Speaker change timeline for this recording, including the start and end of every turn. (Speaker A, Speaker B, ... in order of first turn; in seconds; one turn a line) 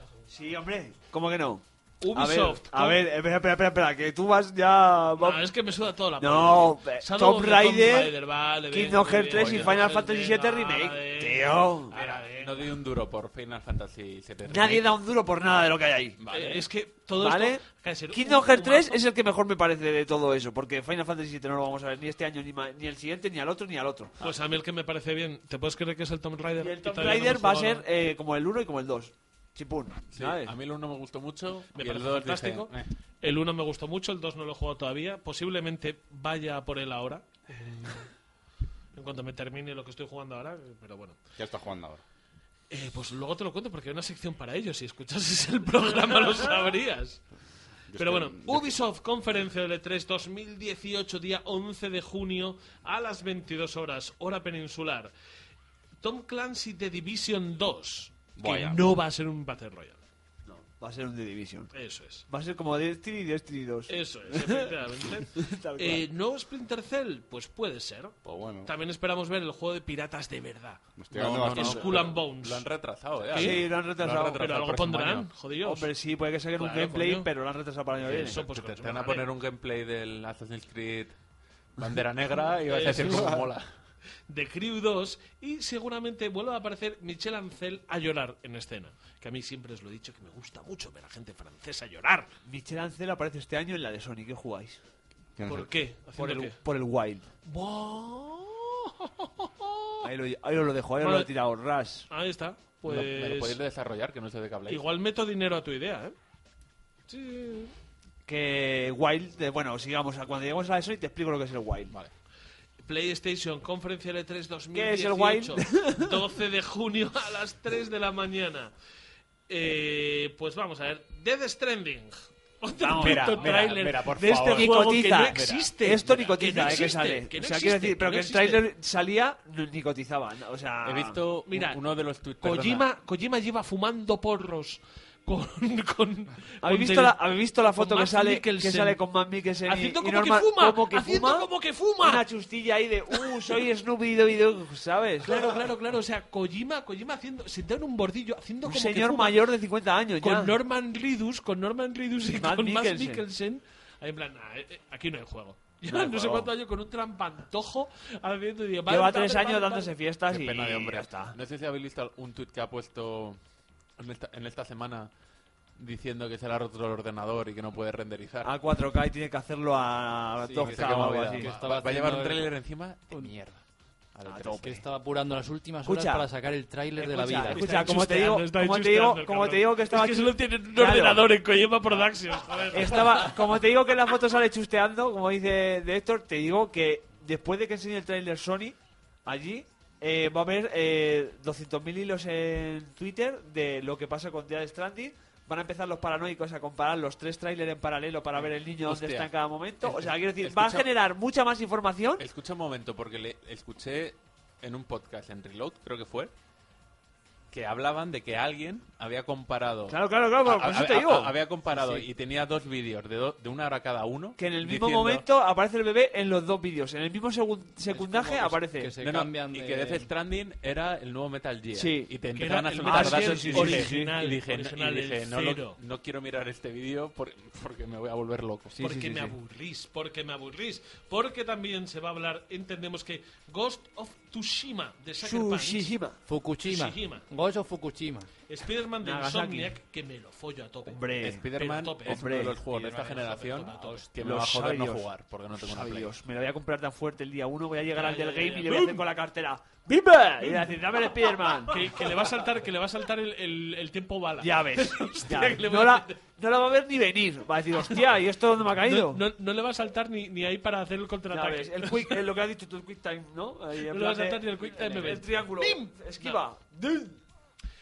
Speaker A: 0.3-5.5
Speaker B: 2.0-3.0
Speaker B: 5.2-12.7
Speaker A: 6.2-8.2
Speaker A: 8.7-11.9
Speaker C: 9.3-10.0
Speaker C: 11.9-14.9
Speaker A: 14.4-16.2
Speaker C: 16.2-16.6
Speaker B: 16.3-19.0
Speaker A: 17.1-24.2
Speaker B: 24.2-27.8
Speaker A: 26.6-30.5
Speaker C: 30.1-32.9
Speaker B: 31.7-38.1
Speaker B: 38.9-41.2
Speaker D: 41.4-42.0
Speaker B: 42.7-47.2
Speaker D: 47.9-48.7
Speaker B: 48.0-55.1
Speaker B: 56.0-60.0
Speaker D: 58.4-59.0
Speaker A: 60.4-61.7
Speaker B: 61.7-62.3
Speaker A: 62.3-66.0
Speaker B: 63.9-70.8
Speaker D: 68.2-68.7
Speaker D: 71.0-72.1
Speaker C: 71.1-75.3
Speaker B: 71.4-72.7
Speaker B: 73.3-73.6
Speaker A: 73.3-74.5
Speaker B: 74.3-75.9
Speaker A: 75.6-78.4
Speaker B: 76.5-77.3
Speaker C: 78.0-81.1
Speaker B: 78.0-79.3
Speaker C: 81.8-83.7
Speaker B: 82.7-83.5
Speaker B: 84.3-92.3
Speaker A: 92.4-94.8
Speaker D: 95.3-95.7
Speaker B: 95.4-96.6
Speaker A: 96.1-97.3
Speaker B: 97.5-100.0
Speaker A: 100.0-102.1
Speaker B: 101.0-101.3
Speaker B: 102.1-103.6
Speaker C: 102.8-104.8
Speaker B: 104.7-106.1
Speaker B: 107.1-107.7
Speaker A: 108.2-111.9
Speaker B: 112.8-118.7
Speaker A: 114.7-116.1
Speaker B: 119.5-128.7
Speaker A: 122.8-123.5
Speaker C: 122.9-126.9
Speaker A: 124.4-131.2
Speaker C: 130.8-132.8
Speaker B: 131.5-131.8
Speaker B: 132.4-139.0
Speaker A: 136.6-145.6
Speaker B: 139.7-142.2
Speaker B: 145.2-149.5
Speaker A: 148.6-150.5
Speaker B: 150.2-159.9
Speaker A: 152.3-153.2
Speaker A: 155.9-156.5
Speaker A: 158.9-161.3
Speaker C: 160.3-163.4
Speaker C: 164.0-165.1
Speaker C: 165.8-168.5
Speaker A: 168.4-171.5
Speaker E: 170.4-173.6
Speaker C: 170.5-173.5
Speaker C: 174.1-174.7
Speaker A: 174.2-174.8
Speaker E: 174.6-177.9
Speaker A: 175.8-176.2
Speaker A: 177.0-181.2
Speaker B: 177.5-183.3
Speaker A: 182.7-202.2
Speaker C: 198.3-200.9
Speaker C: 202.2-206.3
Speaker C: 207.5-215.2
Speaker A: 209.9-212.0
Speaker A: 214.4-218.9
Speaker E: 217.9-220.1
Speaker C: 219.0-229.1
Speaker A: 221.7-222.1
Speaker B: 222.3-225.8
Speaker A: 222.8-224.1
Speaker B: 228.8-235.9
Speaker A: 235.2-236.2
Speaker E: 236.2-238.3
Speaker B: 236.6-237.2
Speaker B: 238.5-244.1
Speaker A: 239.0-239.7
Speaker A: 240.8-241.4
Speaker C: 241.2-246.1
Speaker A: 242.0-242.6
Speaker E: 242.7-244.0
Speaker A: 244.2-252.1
Speaker B: 247.9-249.1
Speaker B: 250.4-250.7
Speaker B: 251.7-256.2
Speaker A: 254.4-259.2
Speaker B: 258.8-262.2
Speaker A: 261.3-267.2
Speaker B: 263.9-266.4